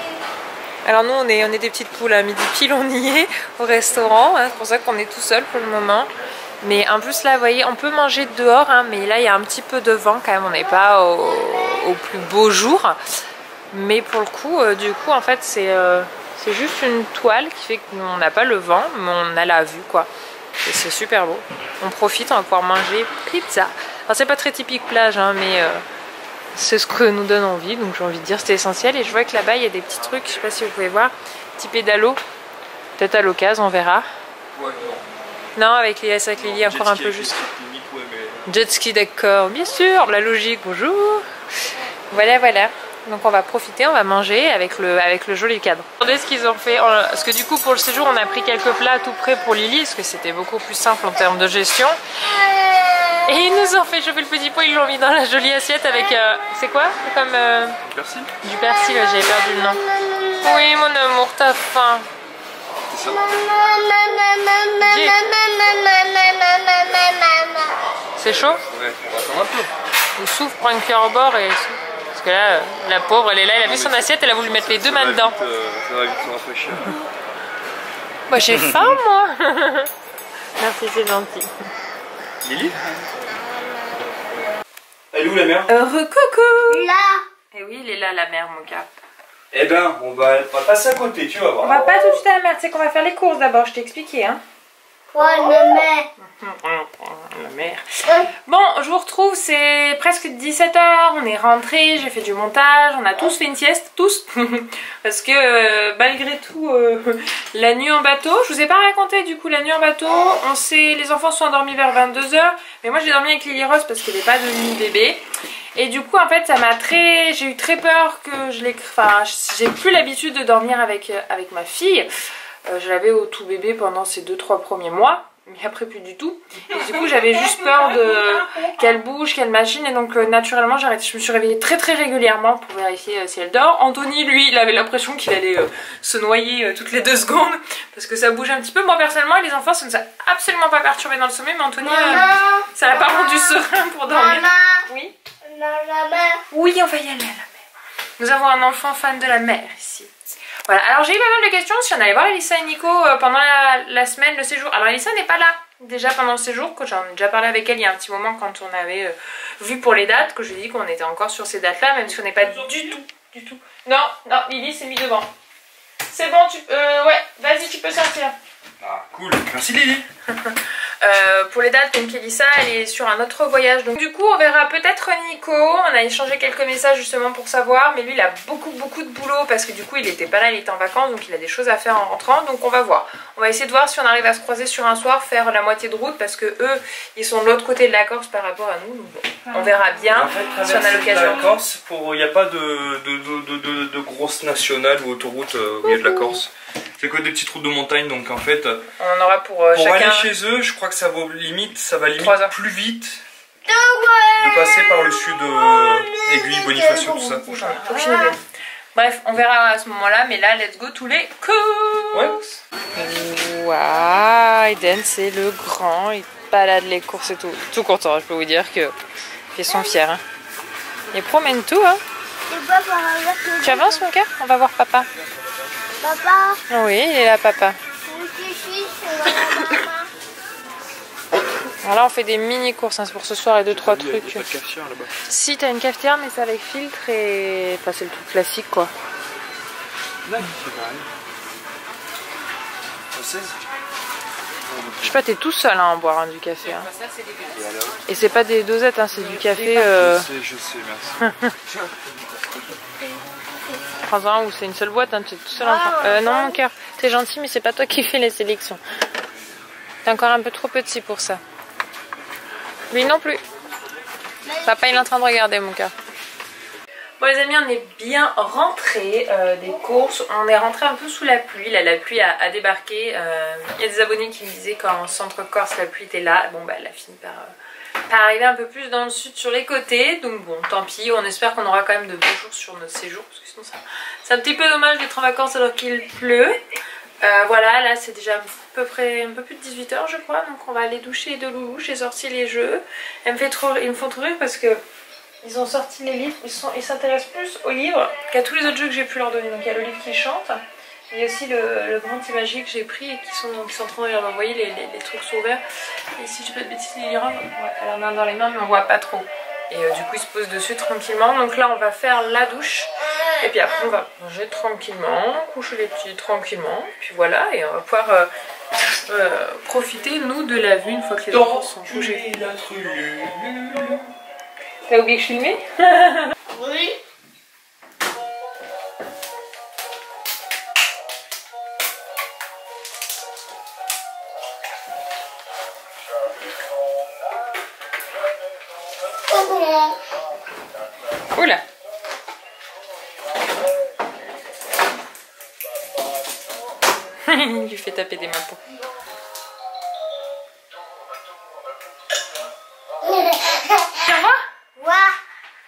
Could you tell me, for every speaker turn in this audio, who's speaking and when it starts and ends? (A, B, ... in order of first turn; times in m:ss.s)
0:00.8-0:13.0 A
0:13.7-0:20.1 A
0:20.6-0:25.8 A
0:26.5-0:32.2 A
0:33.0-0:34.1 A
0:34.5-0:35.0 B
0:35.6-0:37.4 A
0:36.4-0:38.5 B
0:38.5-0:41.2 A
0:42.1-0:52.0 A
0:53.2-0:57.8 A
0:57.8-0:58.3 B
0:58.4-0:59.8 A
1:00.4-1:02.1 A
1:02.9-1:03.2 B
1:03.6-1:04.7 C
1:04.7-1:05.3 A
1:05.3-1:07.6 C
1:08.2-1:08.6 A
1:08.7-1:09.7 B
1:10.2-1:15.4 A
1:13.6-1:17.0 B
1:18.3-1:19.9 A
1:18.5-1:18.9 B
1:20.6-1:21.5 A
1:22.4-1:23.0 B
1:25.1-1:25.7 B
1:25.7-1:26.9 A
1:26.7-1:27.2 C
1:27.5-1:28.9 A
1:29.5-1:31.7 B
1:31.6-1:34.4 A
1:35.1-1:36.1 C
1:36.2-1:55.2 A
1:55.7-2:02.1 A
2:02.7-2:25.2 A
2:21.8-2:23.4 C
2:24.1-2:24.8 C
2:25.4-2:26.4 C
2:26.5-2:27.5 A
2:28.2-2:30.1 A
2:30.6-2:45.3 A
2:42.4-2:43.0 B
2:46.1-2:48.3 A
2:48.8-2:50.0 B
2:50.3-3:11.6 A
3:10.1-3:18.8 B
3:19.0-3:20.3 A
3:19.7-3:23.2 B
3:22.2-3:22.5 A
3:23.6-3:28.4 C
3:24.3-3:27.4 B
3:27.4-3:28.4 A
3:28.9-3:38.9 A
3:39.5-3:40.2 A
3:41.1-3:42.0 A
3:42.5-3:44.0 C
3:43.6-3:45.1 A
3:46.0-3:46.6 C
3:46.7-3:47.8 A
3:48.1-3:50.1 C
3:51.8-3:54.5 A
3:53.7-3:55.1 B
3:55.2-3:58.9 A
4:00.2-4:01.1 B
4:03.1-4:03.6 B
4:04.7-4:05.1 B
4:05.0-4:06.9 A
4:07.5-4:08.1 B
4:08.1-4:10.3 A
4:09.4-4:12.1 B
4:11.2-4:11.5 A
4:14.0-4:18.8 A
4:15.6-4:16.6 C
4:20.0-4:21.4 A
4:22.9-4:23.4 A
4:24.6-4:25.9 A
4:27.2-4:37.5 A
4:38.1-4:46.6 A
4:47.2-4:54.8 A
4:55.4-5:05.6 A
5:06.1-5:18.3 A
5:19.1-5:22.2 A
5:21.3-5:24.1 B
5:24.9-5:26.3 A
5:26.5-5:27.0 C
5:39.3-5:39.9 C
5:41.3-5:41.6 A
5:47.2-5:48.6 A
5:53.0-5:54.0 C
5:54.0-5:54.4 A
5:54.8-5:55.2 C